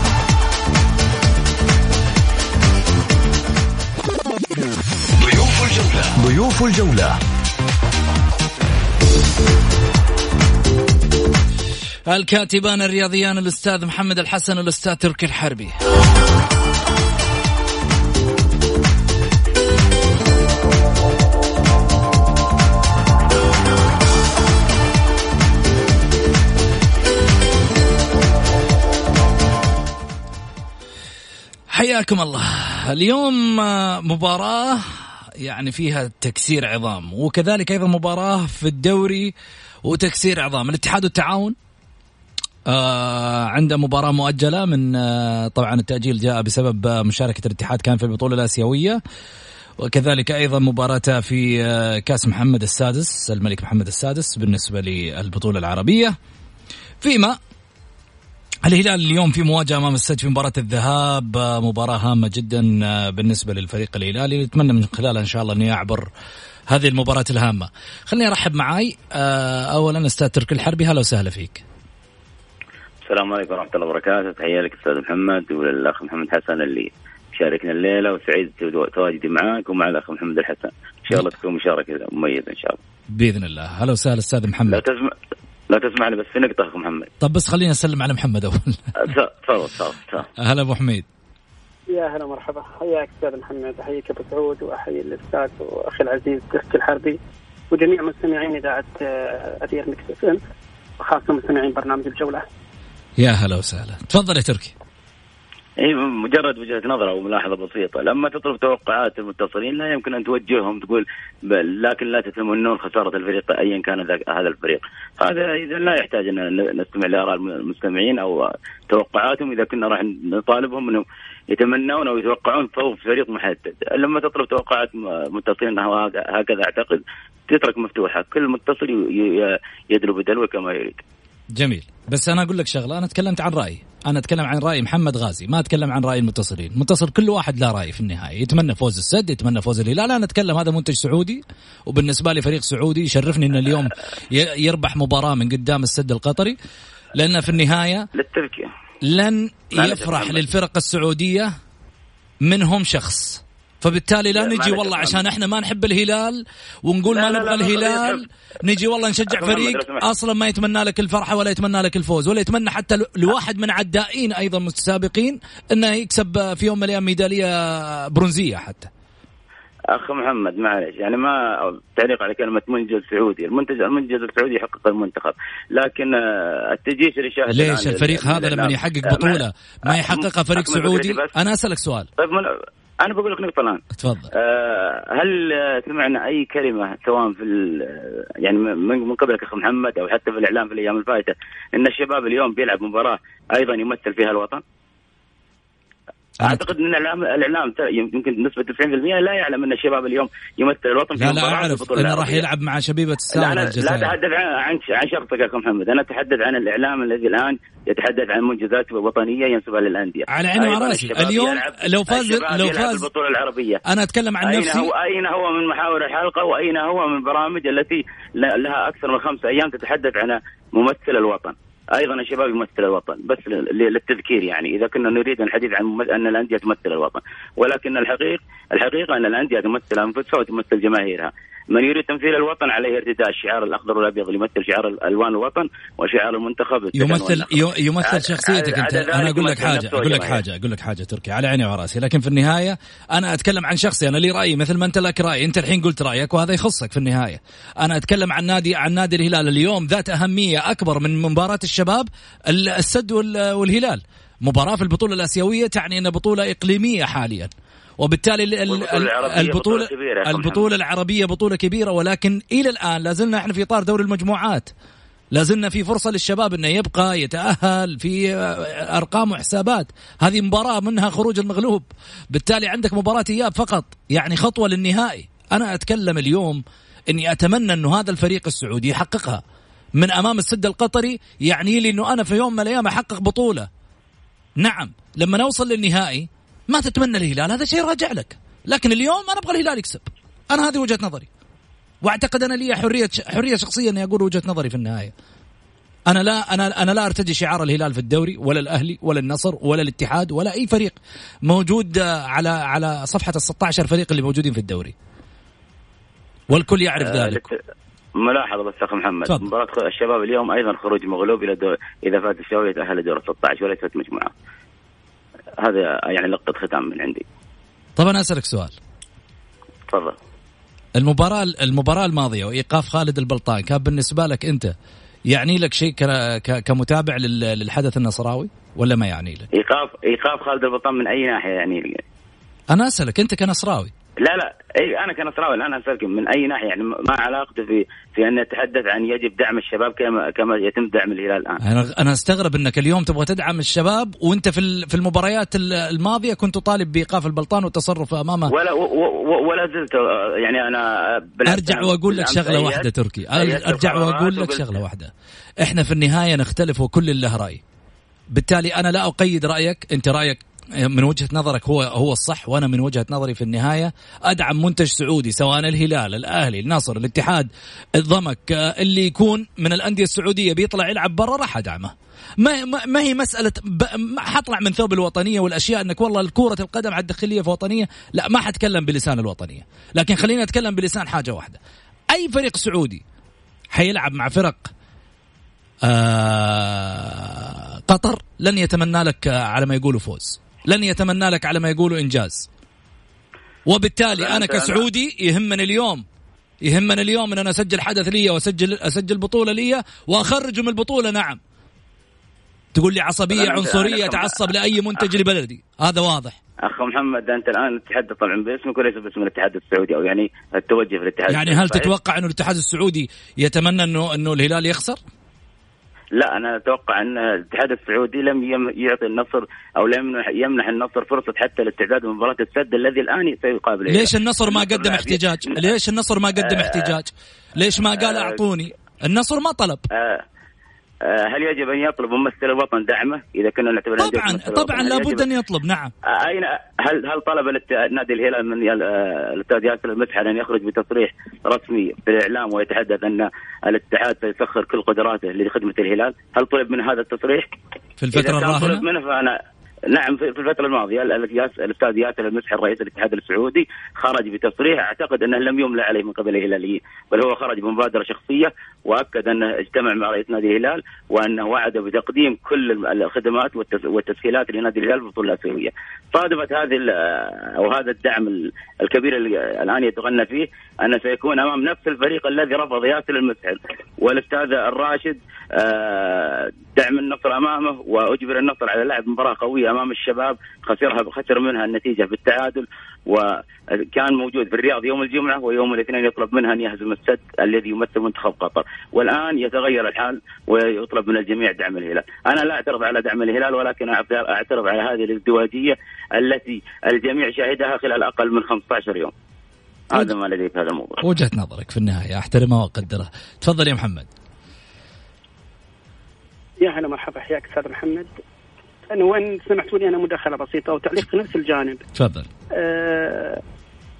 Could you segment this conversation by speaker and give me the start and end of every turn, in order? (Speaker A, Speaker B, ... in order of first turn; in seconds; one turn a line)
Speaker A: 5.2-7.2
Speaker B: 12.1-15.7
Speaker B: 31.7-34.8
Speaker B: 35.4-39.3
Speaker B: 39.8-41.5
Speaker B: 42.7-49.0
Speaker B: 49.8-56.1
Speaker B: 57.0-57.4
Speaker B: 58.6-66.0
Speaker B: 66.7-71.6
Speaker C: 73.0-82.8
Speaker B: 83.1-84.8
Speaker C: 84.7-85.1
Speaker C: 85.7-87.1
Speaker B: 87.2-88.9
Speaker C: 89.0-90.3
Speaker B: 90.4-91.0
Speaker D: 91.9-97.2
Speaker D: 97.7-100.4
Speaker D: 101.0-102.4
Speaker B: 103.2-104.7
Speaker C: 105.8-131.0
Speaker B: 131.6-146.6
Speaker B: 147.1-148.1
Speaker C: 148.1-148.7
Speaker B: 149.0-151.5
Speaker C: 149.8-150.4
Speaker B: 152.4-168.9
Speaker C: 154.3-155.2
Speaker C: 157.1-158.2
Speaker C: 159.3-160.0
Speaker C: 169.9-181.3
Speaker B: 177.5-182.1
Speaker C: 182.2-194.6
Speaker B: 184.0-184.3
Speaker C: 196.4-202.4
Speaker B: 201.2-204.1
Speaker C: 203.3-213.8
Speaker B: 210.3-213.0
Speaker B: 213.8-214.9
Speaker C: 214.4-240.4
Speaker B: 236.9-264.7
Speaker C: 258.7-260.6
Speaker B: 265.3-279.4
Speaker B: 280.0-283.7
Speaker B: 284.6-291.3
Speaker B: 292.0-295.1
Speaker B: 296.1-304.9
Speaker B: 306.5-307.5
Speaker C: 307.0-307.5
Speaker C: 308.2-314.3
Speaker C: 315.6-317.2
Speaker B: 318.0-318.8
Speaker C: 319.9-320.1
Speaker B: 321.0-324.7
Speaker B: 325.3-329.5
Speaker C: 329.5-332.0
Speaker B: 332.7-333.9
Speaker C: 334.2-341.6
Speaker B: 341.6-348.5
Speaker C: 348.5-354.7
Speaker B: 351.4-357.6
Speaker B: 358.3-381.6
Speaker B: 382.1-383.0
Speaker B: 383.7-384.7
Speaker B: 385.8-392.5
Speaker B: 393.7-396.0
Speaker C: 394.1-394.8
Speaker B: 396.6-401.4
Speaker B: 402.7-406.4
Speaker C: 403.3-405.0
Speaker C: 406.6-411.9
Speaker B: 411.3-415.0
Speaker C: 416.2-425.7
Speaker B: 423.9-429.8
Speaker C: 426.4-426.9
Speaker C: 427.8-428.4
Speaker C: 429.9-430.2
Speaker C: 431.0-435.2
Speaker B: 434.0-435.9
Speaker C: 436.1-447.5
Speaker B: 448.0-448.8
Speaker C: 448.1-449.4
Speaker C: 449.9-499.1
Speaker C: 499.9-501.0
Speaker B: 501.0-504.1
Speaker D: 506.6-508.1
Speaker D: 508.9-511.8
Speaker B: 511.9-512.3
Speaker D: 512.5-513.4